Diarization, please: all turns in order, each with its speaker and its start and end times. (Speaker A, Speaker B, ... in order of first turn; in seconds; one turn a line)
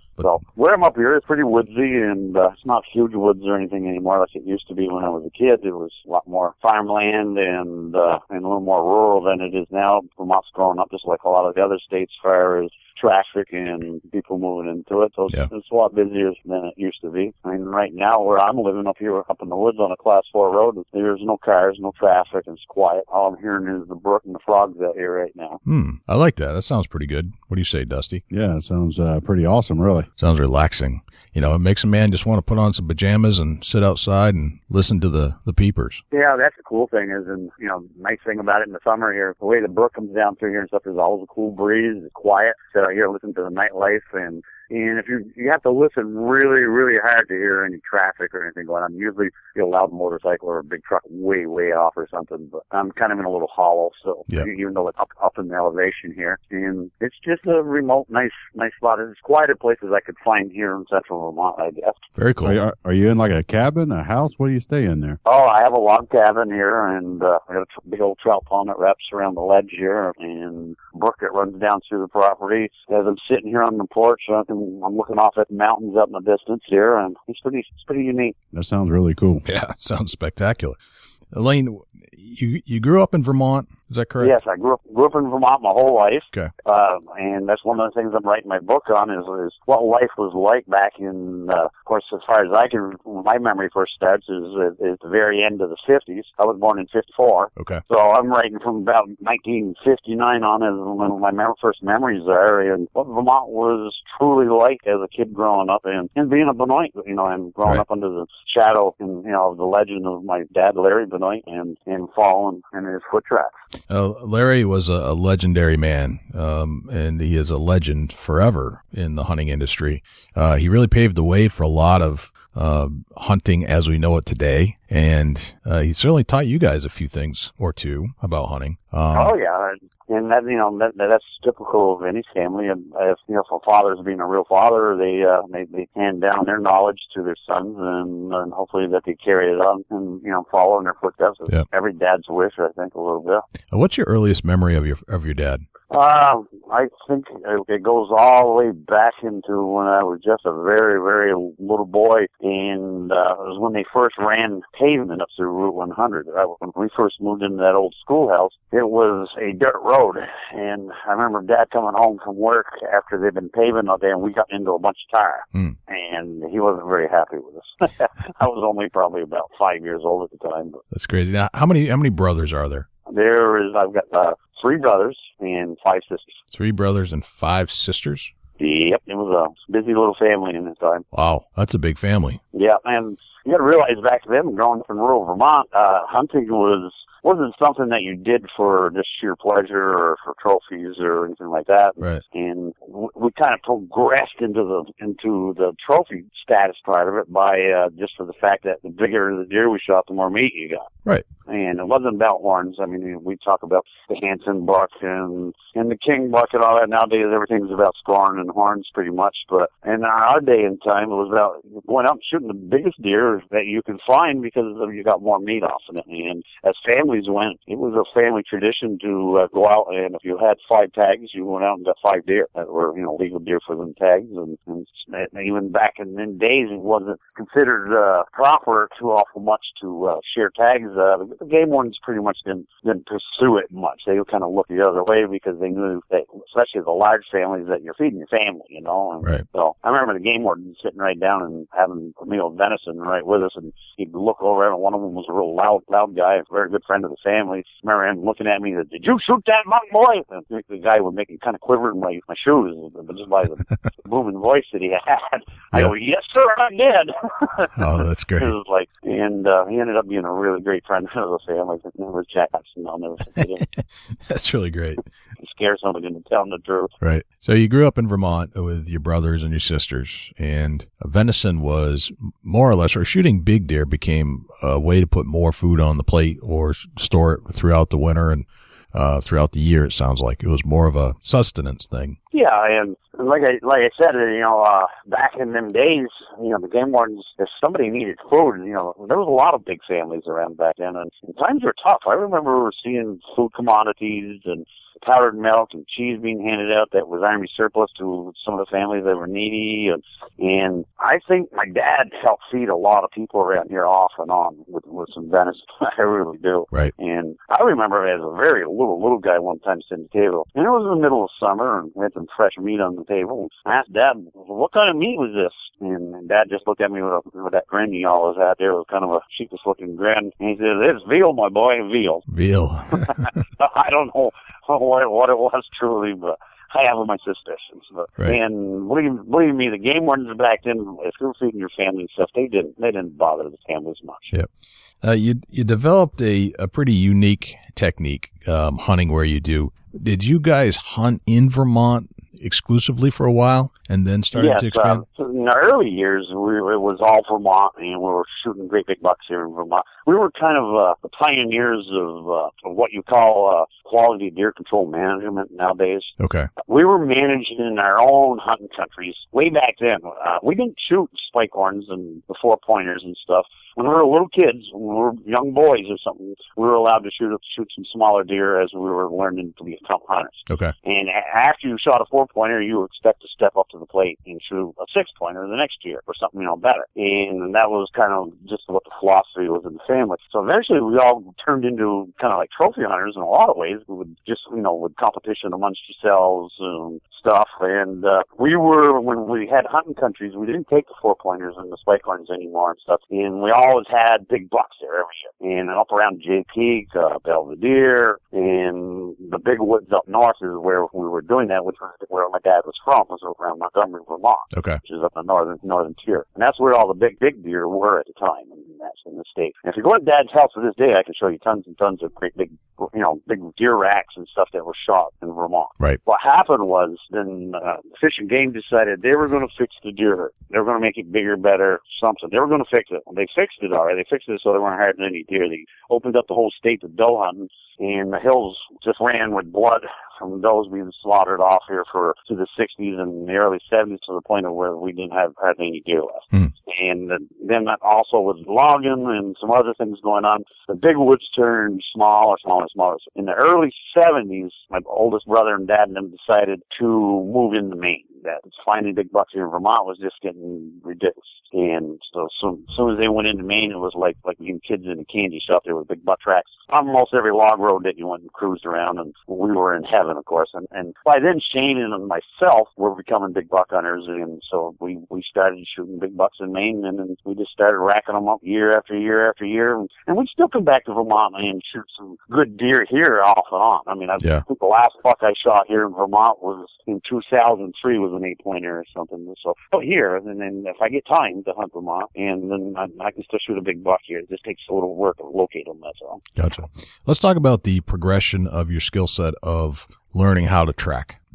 Speaker A: 0.2-25.6
Speaker B: 25.6-28.2
Speaker C: 28.3-30.1
Speaker B: 30.2-36.0
Speaker A: 36.1-62.0
Speaker B: 62.2-62.6
Speaker C: 62.4-65.2
Speaker A: 65.2-78.3
Speaker C: 78.5-79.4
Speaker B: 79.4-80.8
Speaker B: 81.3-84.3
Speaker A: 84.2-113.5
Speaker B: 97.6-97.8
Speaker B: 113.9-129.3
Speaker A: 129.1-143.4
Speaker B: 143.7-145.6
Speaker A: 145.9-170.8
Speaker B: 170.9-172.9
Speaker A: 173.1-176.3
Speaker B: 176.5-178.3
Speaker A: 178.6-181.0
Speaker B: 181.1-182.4
Speaker A: 182.5-200.8
Speaker A: 201.5-257.8
Speaker B: 257.8-258.5
Speaker A: 258.4-263.7
Speaker B: 264.2-265.0
Speaker A: 265.4-266.9
Speaker B: 267.0-282.2
Speaker A: 282.3-322.2
Speaker B: 322.3-323.3
Speaker A: 323.0-334.3
Speaker B: 335.0-345.0
Speaker A: 344.3-486.2
Speaker B: 356.2-356.5
Speaker B: 404.5-404.8
Speaker B: 486.4-491.2